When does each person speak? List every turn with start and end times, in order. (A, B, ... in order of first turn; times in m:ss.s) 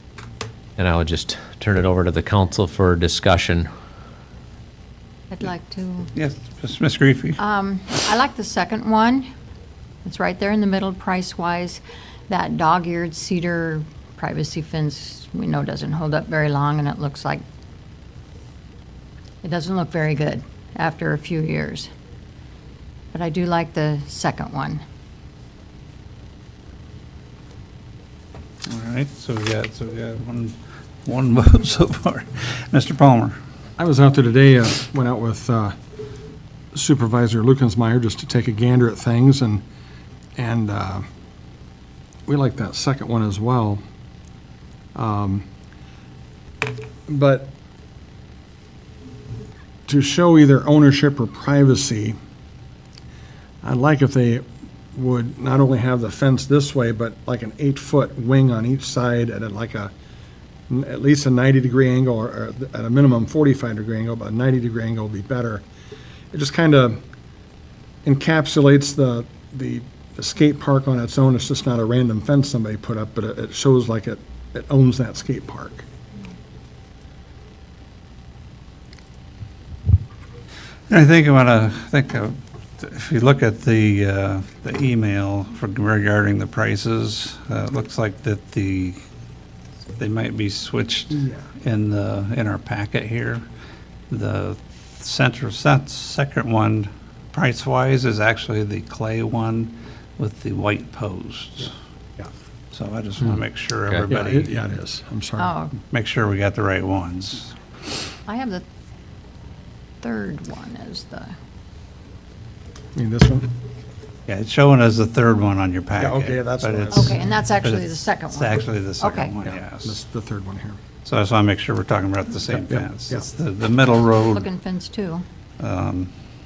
0:00.8-0:03.7 A
0:05.3-0:06.1 B
0:06.2-0:07.4 C
0:07.4-0:09.3 B
0:10.0-0:17.4 B
0:19.4-0:21.9 B
0:23.1-0:24.8 B
0:28.7-0:33.4 C
0:33.8-0:35.7 D
0:36.7-0:39.6 D
0:40.4-0:41.0 D
0:42.3-0:43.8 D
0:45.0-0:45.5 D
0:47.1-0:47.5 D
0:49.9-0:52.2 D
0:53.6-0:59.9 D
1:00.7-1:05.6 D
1:06.3-1:07.0 D
1:08.0-1:15.9 D
1:20.9-1:29.0 C
1:30.0-1:33.4 C
1:34.1-1:41.7 C
1:42.7-1:44.6 C
1:44.1-1:45.6 D
1:45.4-1:45.8 B
1:45.8-1:47.5 C
1:48.3-1:48.6 B
1:50.0-1:51.3 B
1:53.0-1:53.5 D
1:54.3-2:00.0 C
1:56.0-1:57.3 D
1:56.9-1:59.4 B
1:59.5-2:00.8 D
2:01.0-2:04.5 C
2:02.5-2:03.2 D
2:04.3-2:05.2 B
2:05.6-2:06.1 C